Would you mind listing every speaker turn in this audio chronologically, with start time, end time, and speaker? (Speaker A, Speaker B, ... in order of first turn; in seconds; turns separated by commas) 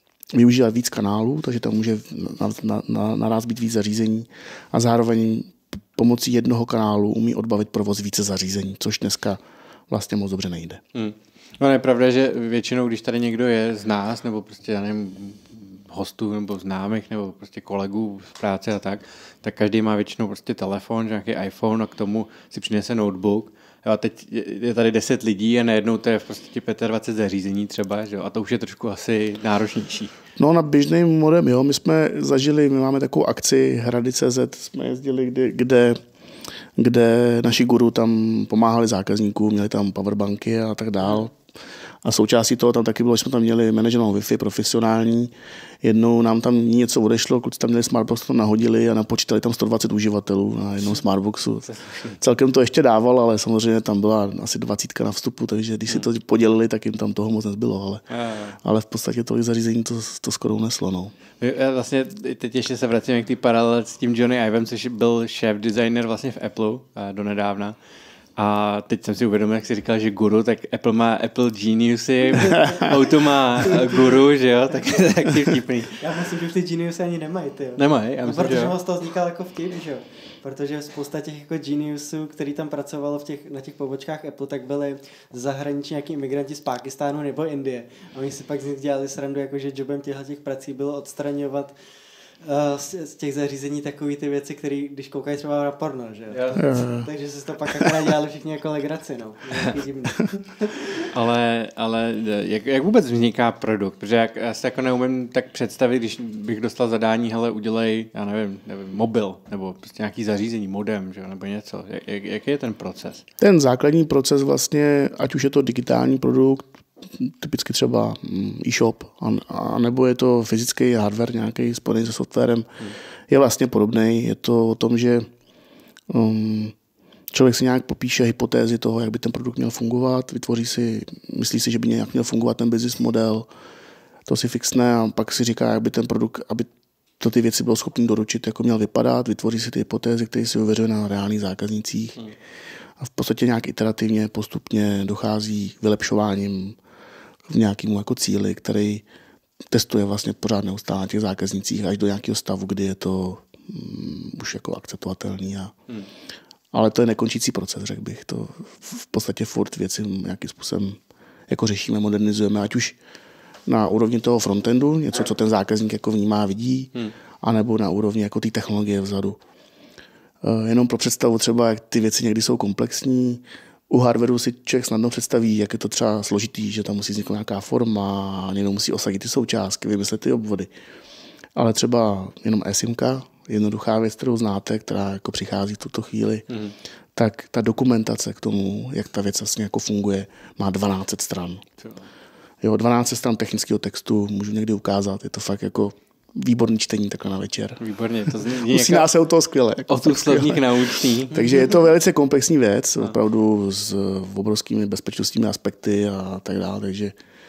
Speaker A: 0.3-10.8, Speaker B: 10.9-30.1, Speaker A: 30.4-36.0, Speaker A: 36.8-41.4, Speaker A: 42.0-45.3, Speaker A: 45.8-58.0, Speaker B: 51.7-52.2, Speaker B: 58.1-58.6, Speaker A: 58.6-61.1, Speaker B: 61.4-67.8, Speaker B: 68.3-76.0, Speaker C: 72.4-73.1, Speaker C: 73.7-74.0, Speaker C: 76.0-91.7, Speaker B: 77.8-78.8, Speaker C: 92.4-101.0, Speaker B: 96.3-96.6, Speaker A: 96.6-97.1, Speaker B: 101.1-113.2, Speaker A: 113.4-125.3, Speaker A: 126.1-126.7, Speaker A: 127.3-133.5, Speaker A: 134.3-136.7, Speaker A: 137.2-142.2, Speaker A: 143.0-146.8, Speaker A: 147.5-149.0, Speaker A: 149.7-155.7, Speaker A: 156.7-163.0, Speaker A: 163.7-169.4, Speaker A: 170.4-180.7, Speaker A: 181.5-186.4, Speaker B: 186.5-186.7, Speaker A: 187.1-191.6, Speaker A: 192.6-197.8, Speaker B: 197.8-199.1, Speaker A: 198.6-207.1, Speaker B: 199.9-201.4